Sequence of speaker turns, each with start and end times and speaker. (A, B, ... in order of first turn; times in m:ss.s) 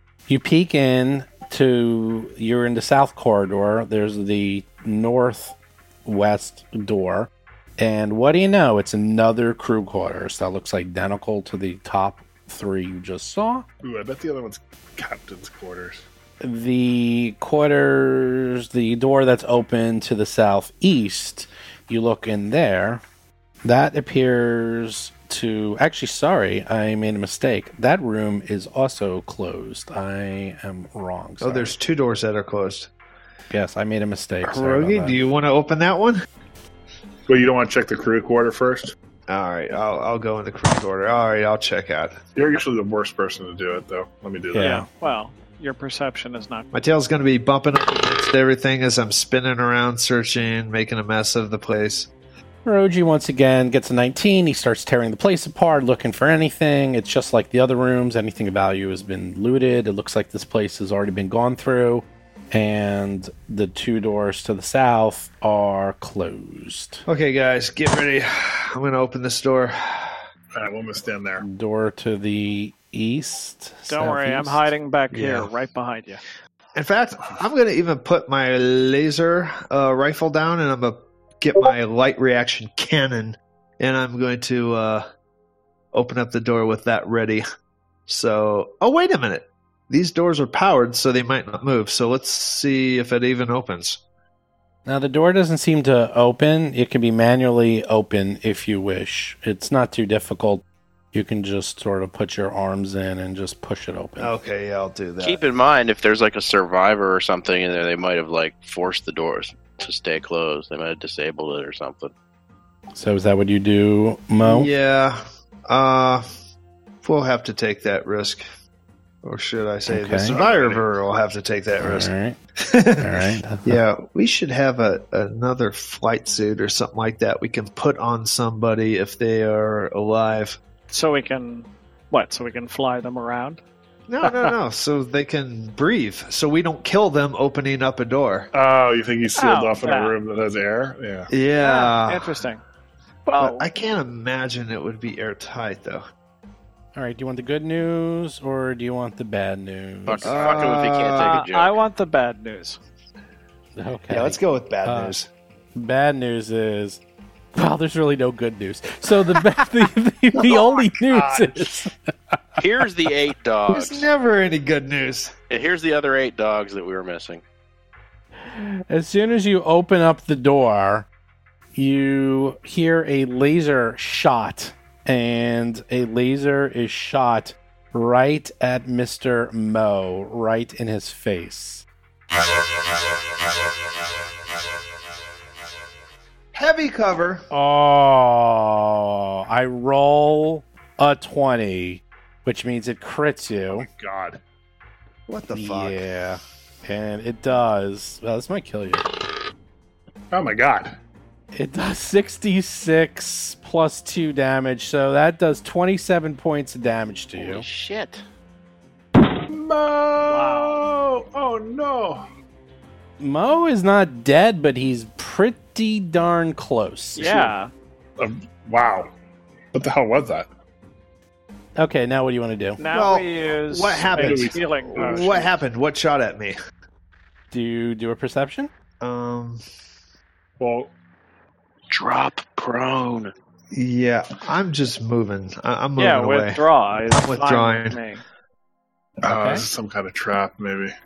0:00.3-0:13.6 A
0:13.8-0:16.0 B
0:16.4-0:23.0 A
0:23.6-0:31.7 A
0:31.4-0:32.9 C
0:33.5-0:35.2 A
0:34.4-0:36.2 C
0:37.3-0:38.9 B
0:39.3-0:42.2 C
0:42.3-0:44.7 B
0:44.5-0:44.8 A
0:44.6-0:46.7 D
0:46.7-0:52.1 C
0:52.6-1:07.0 A
1:07.0-1:10.2 C
1:10.6-1:11.4 B
1:11.4-1:14.7 A
1:13.9-1:16.2 D
1:15.1-1:15.5 C
1:16.7-1:25.1 C
1:25.9-1:27.4 C
1:28.1-1:34.0 C
1:34.8-1:44.3 A
1:44.2-1:45.4 C
1:45.2-1:52.1 E
1:52.9-1:54.7 A
1:54.4-1:56.2 C
1:57.0-1:58.4 C
1:59.2-2:02.1 C
1:59.9-2:00.4 A
2:00.3-2:00.8 B
2:01.8-2:02.4 A
2:02.6-2:10.6 C
2:03.0-2:03.8 A
2:10.9-2:13.6 D
2:14.1-2:18.5 C
2:14.2-2:14.5 D
2:18.5-2:21.3 B
2:19.4-2:20.2 D
2:21.3-2:22.4 C
2:21.6-2:22.6 D
2:23.2-2:23.6 D
2:23.4-2:26.0 C
2:26.9-2:30.6 A
2:30.0-2:31.8 E
2:30.2-2:31.4 C
2:31.2-2:32.8 D
2:33.8-2:35.1 A
2:34.1-2:35.3 C
2:35.7-2:37.0 A
2:37.5-2:42.1 A
2:40.4-2:41.6 B
2:42.6-2:44.0 E
2:43.7-2:45.3 C
2:45.5-2:47.4 E
2:48.4-2:51.1 A
2:51.7-3:01.8 A
3:06.5-3:07.5 C
3:07.5-3:13.9 A
3:13.7-3:14.4 B
3:15.3-3:16.0 C
3:15.5-3:19.0 A
3:20.3-3:21.0 B
3:21.5-3:27.6 A
3:27.4-3:28.2 E
3:29.2-3:32.2 B
3:30.3-3:30.8 D
3:33.2-3:37.3 A
3:37.2-3:37.5 B
3:37.2-3:37.7 D
3:38.2-3:39.1 B
3:39.7-3:40.5 B
3:41.8-3:42.8 A
3:42.8-3:45.5 D
3:42.9-3:46.6 C
3:44.0-3:45.5 B
3:47.5-3:48.7 A
3:49.0-3:49.6 C
3:50.6-3:50.9 B
3:51.9-3:53.3 E
3:53.7-3:58.0 C
3:56.0-3:58.2 D
3:59.2-4:00.9 B
3:59.2-3:59.6 A